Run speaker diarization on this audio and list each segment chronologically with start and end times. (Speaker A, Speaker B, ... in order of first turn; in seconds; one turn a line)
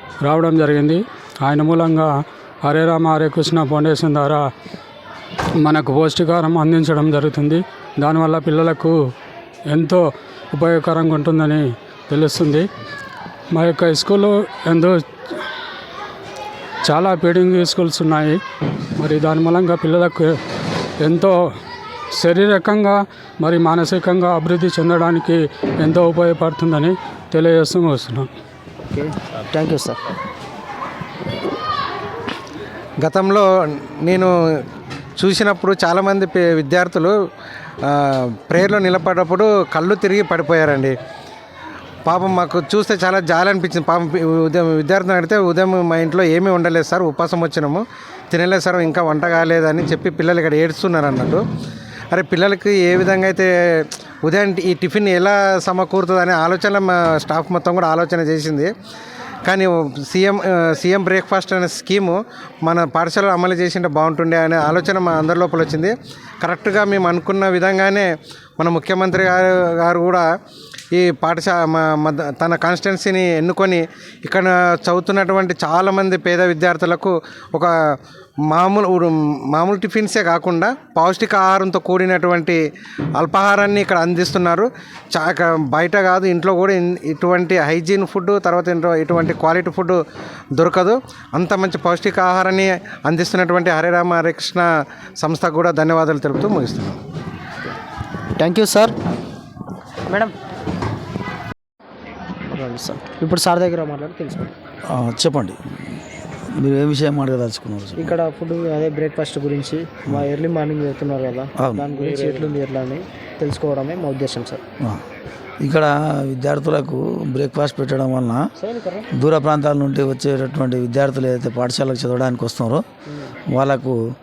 Speaker A: 0.2-4.4
Speaker A: 5.6-9.0
Speaker A: 9.7-12.7
Speaker A: 13.5-15.0
Speaker A: 16.9-18.4
Speaker A: 19.0-20.4
Speaker A: 21.0-21.4
Speaker A: 22.2-28.3
Speaker B: 28.9-30.0
Speaker C: 33.0-33.5
Speaker C: 34.0-34.3
Speaker C: 35.2-37.1
Speaker C: 37.9-40.9
Speaker C: 42.0-51.4
Speaker C: 52.1-53.5
Speaker C: 54.2-58.7
Speaker C: 59.5-68.1
Speaker C: 68.6-70.2
Speaker C: 70.9-77.7
Speaker C: 78.5-82.6
Speaker C: 83.2-90.0
Speaker C: 90.6-94.7
Speaker C: 95.2-97.0
Speaker B: 98.4-98.9
Speaker B: 102.5-104.5
Speaker D: 104.9-106.0
Speaker D: 106.5-108.2
Speaker B: 108.0-114.6
Speaker D: 111.6-111.9
Speaker D: 115.6-118.5
Speaker B: 118.6-119.0
Speaker D: 119.2-122.8
Speaker D: 123.5-124.0